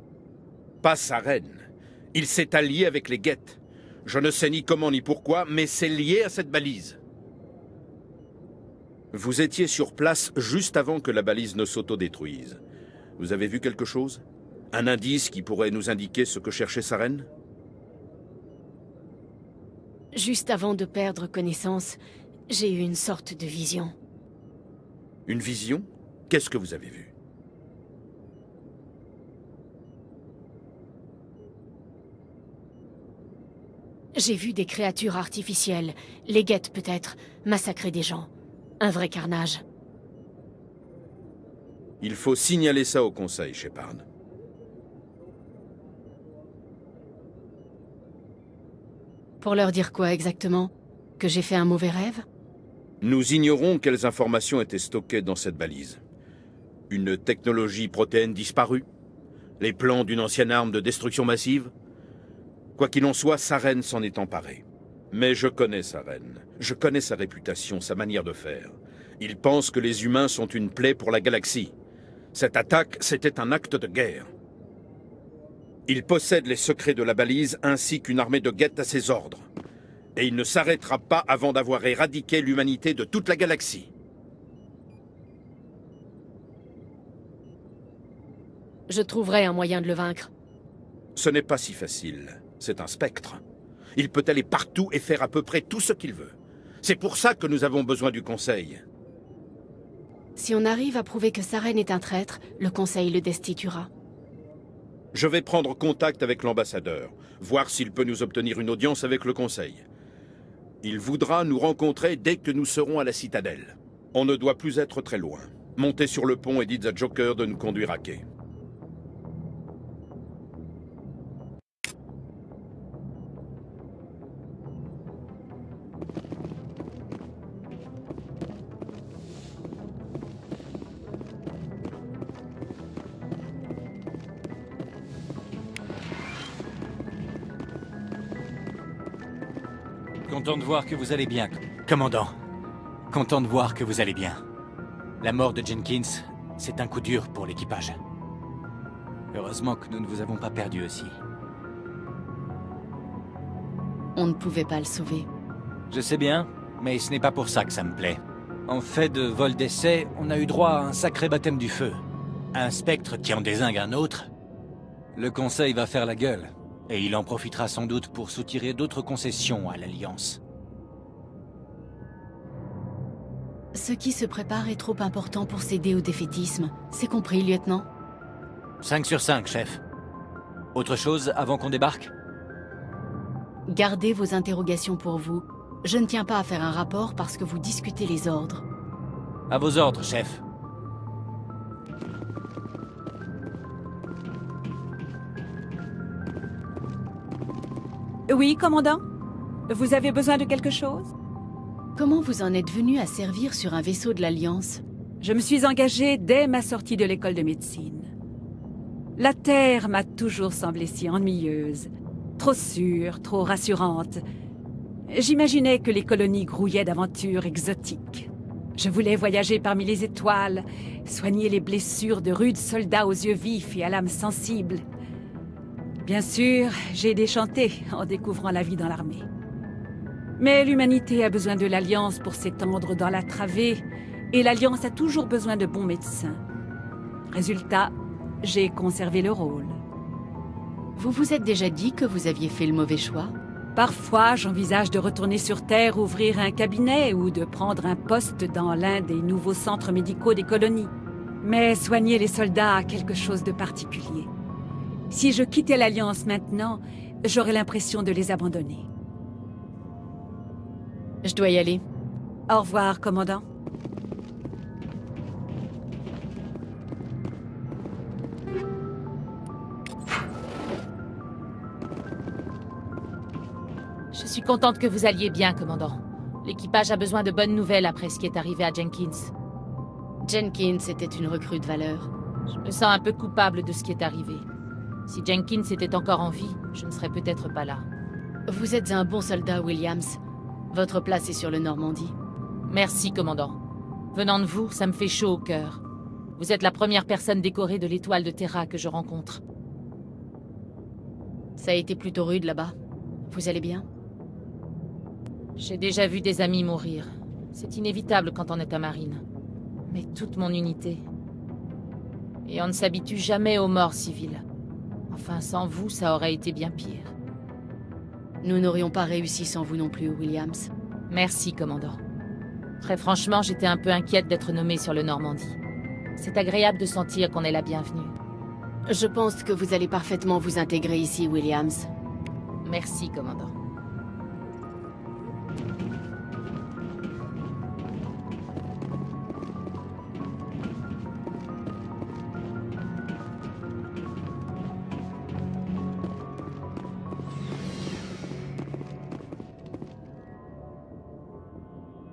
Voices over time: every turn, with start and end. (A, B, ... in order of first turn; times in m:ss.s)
0:00.8-0:07.0 A
0:09.1-0:12.6 A
0:13.2-0:17.3 A
0:20.1-0:23.9 B
0:25.3-0:27.1 A
0:34.2-0:39.6 B
0:42.0-0:44.0 A
0:49.4-0:52.2 B
0:53.0-0:56.0 A
0:56.9-0:58.9 A
0:59.6-1:01.7 A
1:02.8-1:11.7 A
1:12.3-1:14.3 A
1:15.9-1:19.5 A
1:20.2-1:23.9 A
1:28.9-1:30.3 B
1:31.2-1:33.4 A
1:34.0-1:38.8 A
1:40.4-1:43.9 B
1:45.1-1:49.8 A
1:50.8-1:58.2 A
2:20.3-2:22.3 C
2:23.1-2:24.4 C
2:25.2-2:28.0 C
2:29.3-2:31.2 C
2:34.2-2:35.3 B
2:35.9-2:42.0 C
2:42.5-2:44.3 C
2:45.2-2:50.4 C
2:53.8-2:57.9 B
2:58.8-2:59.8 C
3:00.7-3:02.1 C
3:03.7-3:08.6 B
3:09.5-3:10.4 C
3:18.3-3:19.0 D
3:19.7-3:21.1 D
3:22.0-3:24.8 B
3:25.2-3:28.1 D
3:29.2-3:34.2 D
3:35.1-3:44.8 D
3:46.0-3:49.3 D
3:50.4-3:56.4 D
3:57.3-3:59.8 D
4:01.0-4:03.3 B
4:03.8-4:10.9 D
4:11.4-4:14.3 D
4:15.1-4:18.9 D
4:21.2-4:21.8 B
4:22.5-4:23.4 D
4:34.1-4:39.3 E
4:40.2-4:42.1 B
4:42.6-4:44.4 E
4:45.1-4:47.8 E
4:48.5-4:50.2 B
4:50.7-4:52.2 B
4:52.7-4:53.6 E
4:54.1-4:55.8 E
4:56.4-4:59.4 E
5:01.6-5:02.8 B
5:03.3-5:03.9 B
5:05.6-5:09.2 E
5:09.9-5:11.0 E
5:12.4-5:14.4 E
5:15.1-5:17.1 E
5:18.4-5:20.7 B
5:21.1-5:22.0 E
5:22.8-5:25.6 E
5:26.2-5:28.1 E
5:28.9-5:31.9 B
5:32.6-5:33.5 E